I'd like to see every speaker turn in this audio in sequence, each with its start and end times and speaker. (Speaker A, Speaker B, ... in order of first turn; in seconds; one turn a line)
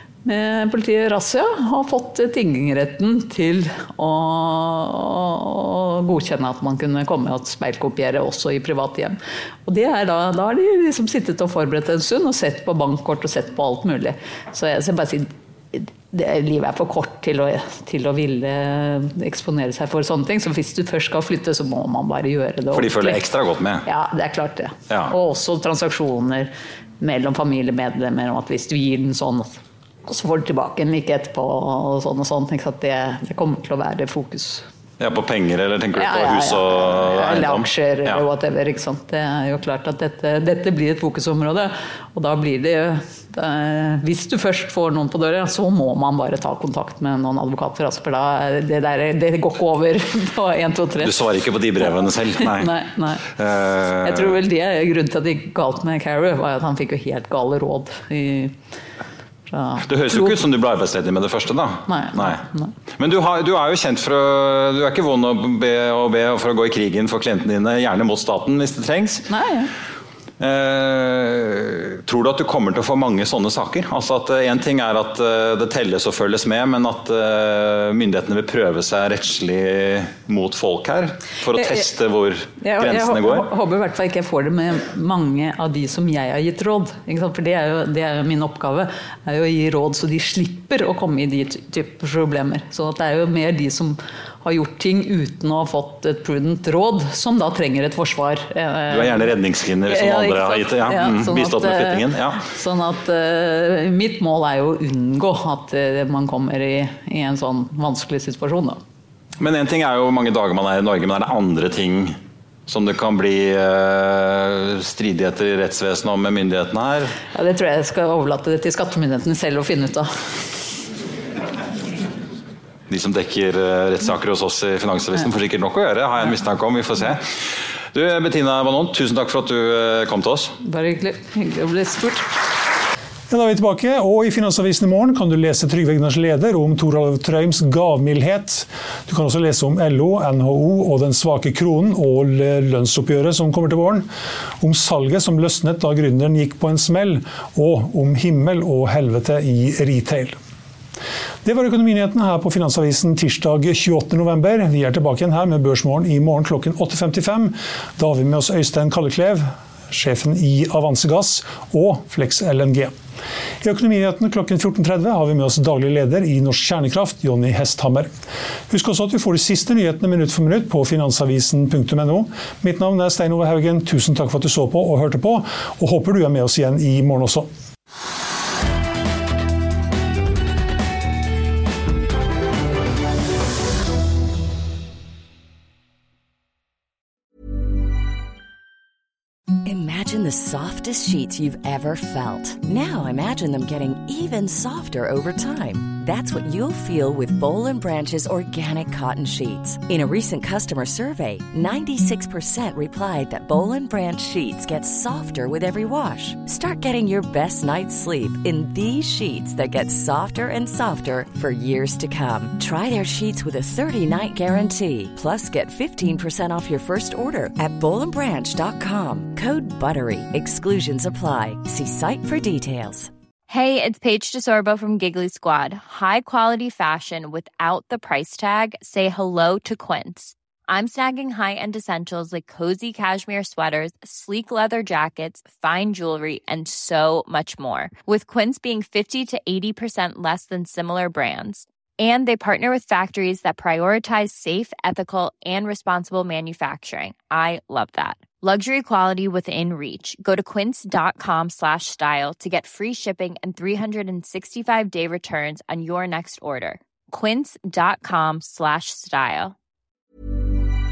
Speaker A: 0.2-23.2
Speaker B: 22.7-23.8
Speaker A: 23.8-34.6
Speaker B: 35.0-38.2
Speaker A: 36.0-51.1
Speaker B: 51.0-54.3
Speaker A: 51.9-53.3
Speaker A: 54.0-58.5
Speaker A: 59.5-60.4
Speaker B: 59.9-62.4
Speaker A: 61.9-62.7
Speaker B: 63.0-69.2
Speaker A: 69.3-69.7
Speaker B: 70.4-83.5
Speaker A: 81.5-81.8
Speaker A: 82.6-99.3
Speaker B: 98.9-102.4
Speaker A: 99.9-108.8
Speaker B: 109.4-112.2
Speaker B: 112.7-117.2
Speaker A: 117.3-120.1
Speaker B: 122.9-130.6
Speaker A: 130.6-132.3
Speaker C: 133.3-144.1
Speaker C: 144.6-150.3
Speaker C: 151.4-162.9
Speaker C: 163.6-168.1
Speaker C: 168.7-177.5
Speaker D: 189.6-223.1
Speaker E: 223.5-259.5